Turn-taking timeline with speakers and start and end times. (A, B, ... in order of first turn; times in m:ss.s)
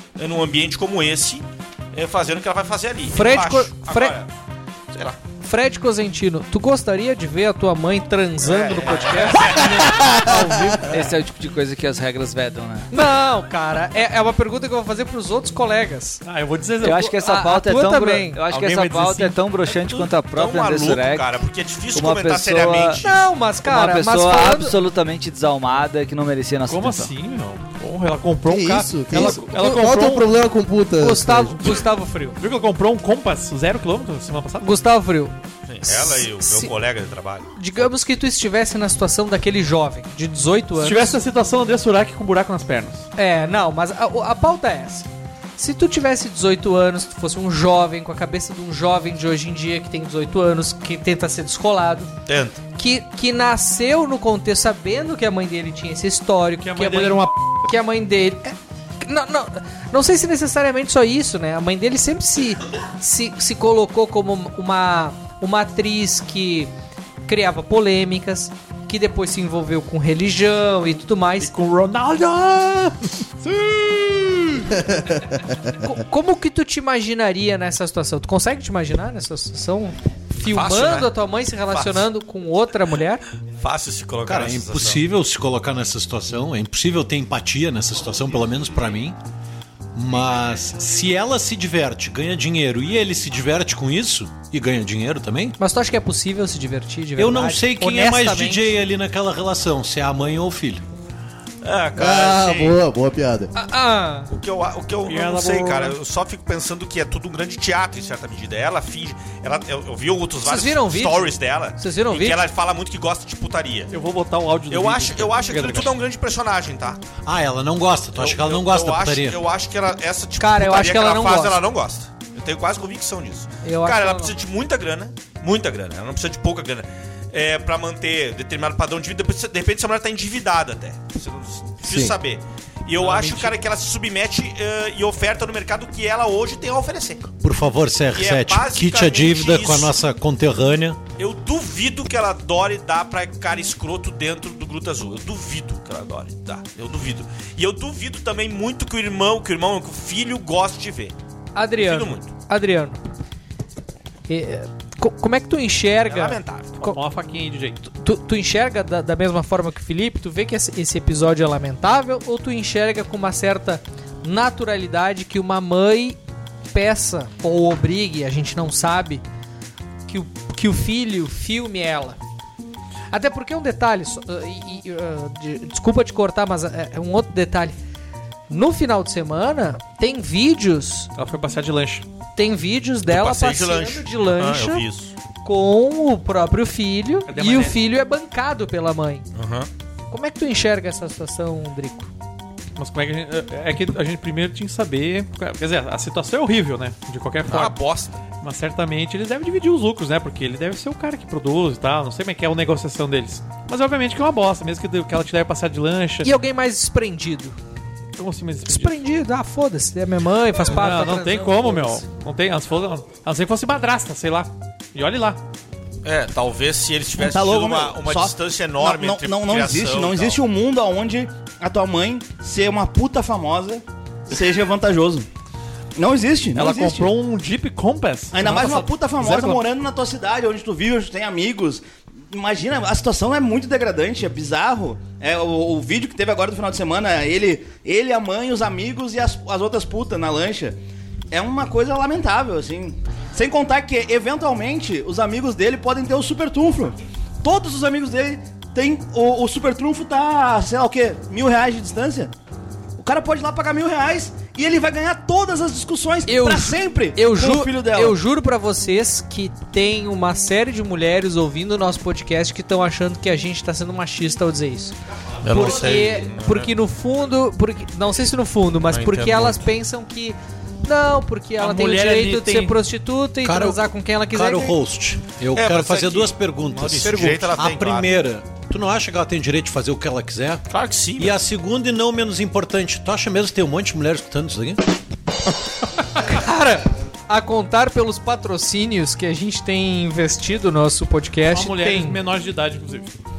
0:00.2-0:04.3 A
0:03.1-0:04.2 B
0:04.9-0:05.2 A
0:05.4-0:10.8 B
0:08.4-0:09.9 A
0:09.5-0:11.0 C
0:10.9-0:12.9 D
0:12.9-0:16.2 B
0:16.2-0:17.1 E
0:16.8-0:21.3 D
0:17.1-0:18.4 B
0:18.5-0:19.4 E
0:19.6-0:23.2 A
0:21.9-0:23.0 D
0:23.0-0:24.8 B
0:23.6-0:27.1 D
0:26.7-0:30.3 E
0:28.4-0:31.6 C
0:29.1-0:29.8 B
0:31.0-0:32.4 B
0:32.4-0:34.7 E
0:34.6-0:36.7 B
0:35.7-0:37.9 A
0:37.6-0:41.2 B
0:40.8-0:43.0 E
0:43.1-0:52.1 B
0:52.2-0:52.6 A
0:52.8-1:06.7 B
0:56.6-0:57.6 E
1:07.2-1:11.5 B
1:11.4-1:14.7 E
1:15.7-1:23.2 B
1:20.4-1:21.1 A
1:21.7-1:22.0 A
1:23.6-1:25.0 A
1:24.2-1:29.2 F
1:29.9-1:35.6 F
1:35.6-1:38.6 B
1:37.2-1:40.8 F
1:41.6-1:42.8 A
1:42.0-1:43.5 C
1:43.5-1:44.3 B
1:44.3-1:53.9 A
1:45.0-1:46.0 E
1:50.4-1:52.4 B
1:53.9-1:56.0 E
1:54.7-1:57.0 A
1:57.2-1:59.4 F
1:58.1-2:17.3 A
2:00.4-2:01.6 B
2:03.6-2:04.4 B
2:11.8-2:12.2 C
2:13.0-2:13.5 B
2:17.4-2:21.0 F
2:18.1-2:19.9 A
2:21.2-2:31.1 A
2:31.5-2:33.0 B
2:31.8-2:32.3 A
2:34.3-2:37.0 B
2:36.0-2:36.8 A
2:36.8-2:37.8 E
2:37.8-2:46.2 B
2:46.7-2:49.2 B
2:50.1-2:52.2 B
2:53.1-2:57.8 B
2:58.5-3:01.1 B
3:01.2-3:02.0 E
3:02.4-3:04.8 B
3:03.1-3:05.1 A
3:05.4-3:09.3 B
3:07.3-3:07.8 E
3:09.3-3:09.7 A
3:10.1-3:12.1 B
3:12.8-3:17.8 E
3:17.4-3:18.2 A
3:18.4-3:26.3 E
3:26.2-3:27.6 B
3:28.2-3:28.9 E
3:28.7-3:32.0 B
3:30.6-3:35.4 E
3:36.0-3:40.4 A
3:37.2-3:45.3 G
3:46.0-3:47.1 G
3:46.5-3:49.6 E
3:48.3-4:00.8 G
4:01.3-4:12.3 G
4:13.0-4:18.2 G
4:16.2-4:24.9 B
4:25.4-4:26.7 A
4:25.5-4:34.8 B
4:28.9-4:29.6 A
4:31.6-4:32.8 E
4:33.4-4:40.6 F
4:35.5-4:38.1 A
4:40.7-4:41.4 A
4:41.2-4:44.8 F
4:46.1-4:52.2 B
4:51.4-4:53.1 E